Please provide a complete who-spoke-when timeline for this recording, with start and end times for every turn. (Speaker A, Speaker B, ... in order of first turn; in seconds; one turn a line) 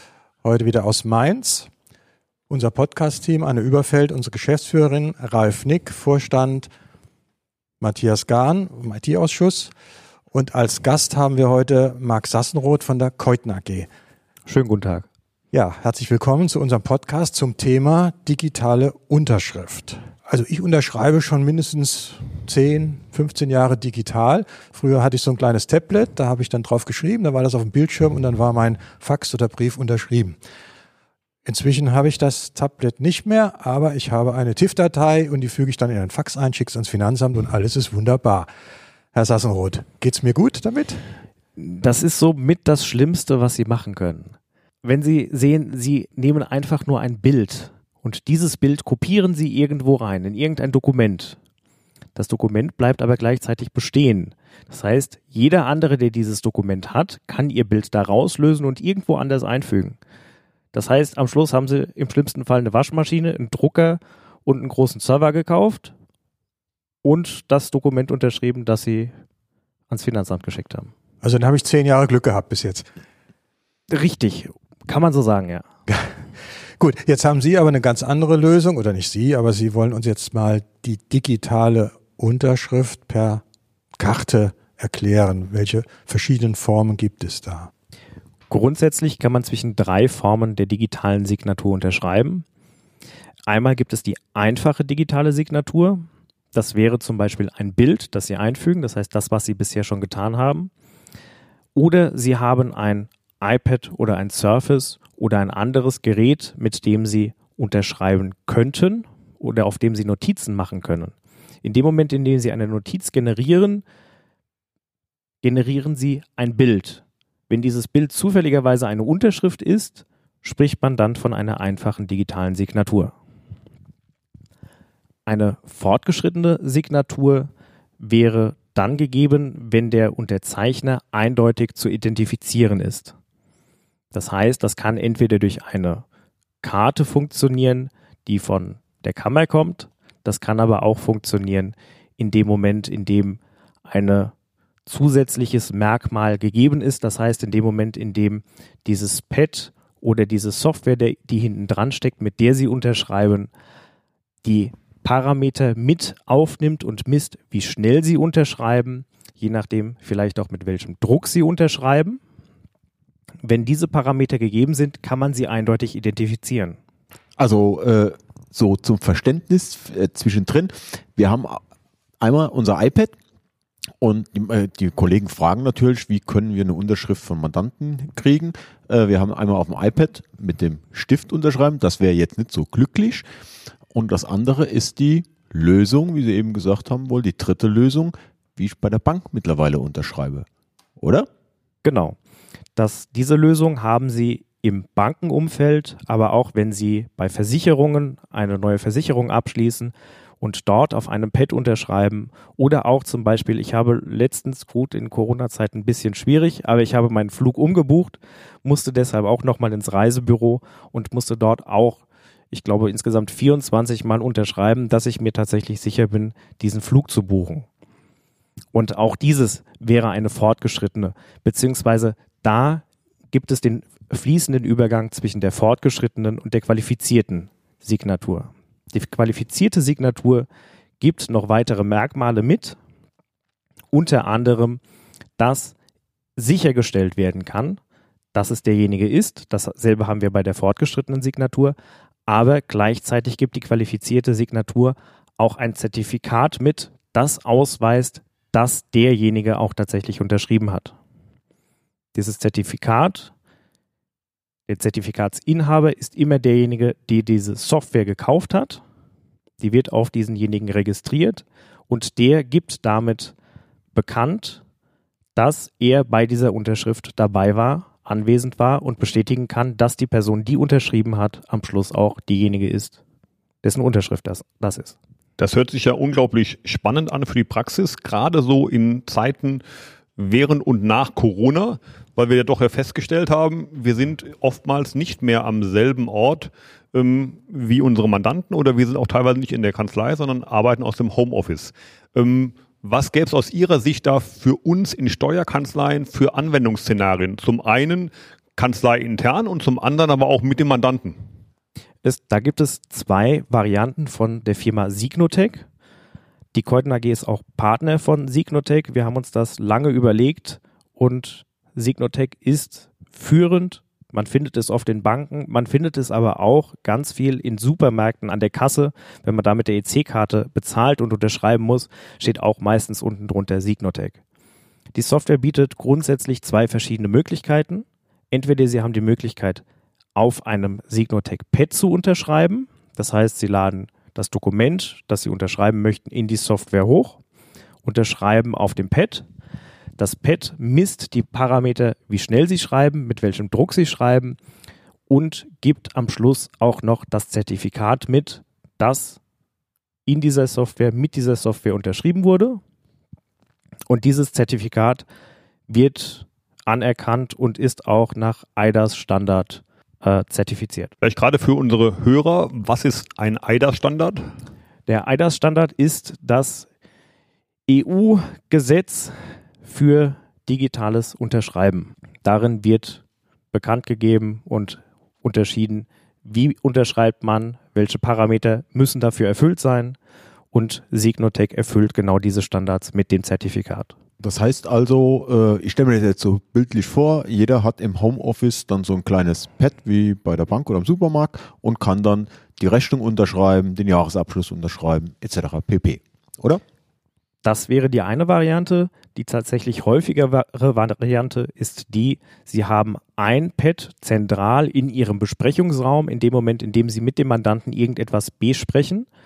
Speaker A: 0.4-1.7
Speaker A: 2.5-6.7
Speaker A: 7.8-9.7
Speaker A: 10.3-13.9
Speaker B: 14.5-15.1
Speaker A: 15.5-30.4
Speaker A: 31.4-38.5
Speaker A: 39.1-41.0
Speaker B: 41.6-51.4
Speaker B: 52.1-60.0
Speaker B: 60.7-65.9
Speaker B: 67.0-69.1
Speaker B: 69.9-70.9
Speaker A: 71.2-72.9
Speaker B: 73.9-75.7
Speaker A: 75.9-76.1
Speaker A: 76.8-83.4
Speaker A: 84.0-87.7
Speaker B: 88.5-92.5
Speaker B: 93.5-96.0
Speaker B: 96.5-100.7
Speaker B: 101.8-113.8
Speaker B: 115.4-123.1
Speaker B: 125.3-127.5
Speaker B: 128.0-133.1
Speaker B: 134.1-136.0
Speaker B: 136.6-144.3
Speaker B: 144.9-153.5
Speaker B: 154.4-162.2
Speaker B: 163.4-166.8
Speaker C: 167.4-171.6
Speaker C: 172.2-173.2
Speaker C: 174.0-183.2
Speaker C: 183.9-190.5
Speaker C: 191.0-191.3
Speaker B: 191.8-192.2
Speaker B: 192.8-217.7
Speaker B: 218.7-230.5
Speaker B: 231.0-232.8
Speaker B: 233.9-234.8
Speaker B: 235.4-235.8
Speaker B: 236.4-237.8
Speaker B: 238.3-241.8
Speaker B: 242.3-250.9
Speaker B: 252.2-253.3
Speaker B: 254.7-258.8
Speaker B: 259.6-263.4
Speaker B: 263.9-264.6
Speaker B: 265.4-273.0
Speaker B: 273.6-275.0
Speaker D: 275.4-279.6
Speaker D: 280.2-301.2
Speaker B: 302.0-305.7
Speaker B: 306.5-324.2
Speaker B: 324.9-329.6
Speaker B: 330.1-337.2
Speaker B: 337.9-339.3
Speaker B: 340.0-344.4
Speaker B: 345.1-349.2
Speaker B: 350.1-352.6
Speaker B: 353.9-355.1
Speaker B: 355.7-360.9
Speaker D: 361.0-364.2
Speaker B: 364.9-366.7
Speaker B: 367.7-380.0
Speaker B: 380.5-383.9
Speaker C: 384.2-396.6
Speaker B: 397.4-409.1